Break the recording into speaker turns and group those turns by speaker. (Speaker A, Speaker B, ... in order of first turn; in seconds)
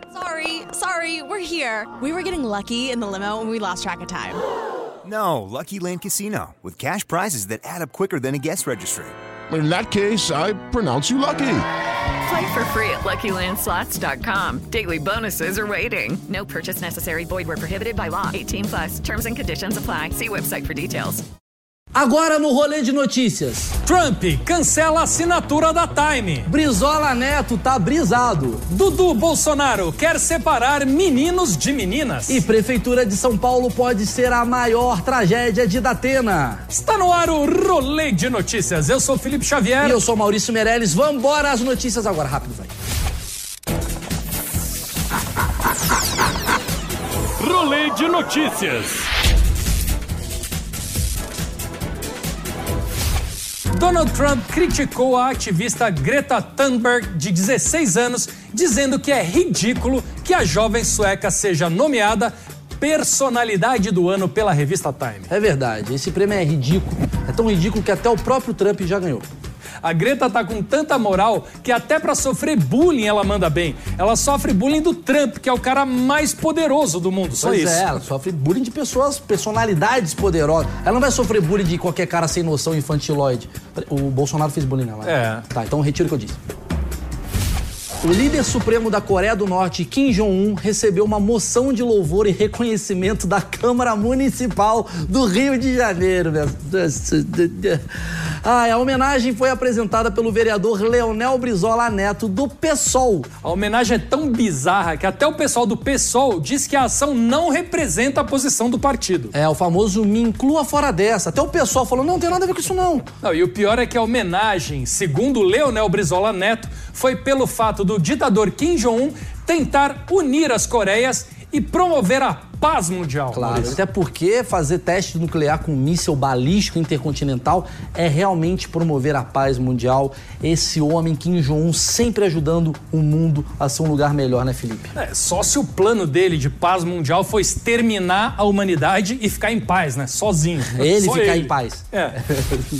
Speaker A: 0.1-4.4
Speaker B: 5.0-9.1
Speaker C: 9.5-11.7
Speaker D: 12.2-21.2
Speaker E: 21.9-23.7, 26.4-28.6, 32.3-36.6, 39.8-42.7, 65.3-69.2, 77.4-86.4, 88.0-103.3, 109.3-113.0, 123.3-134.9, 140.8-142.7
Speaker F: 23.8-26.5, 28.7-32.4, 36.7-40.0, 47.4-49.1, 53.7-65.3, 69.8-78.0, 85.0-85.4, 103.4-109.3, 113.2-123.8, 134.9-142.2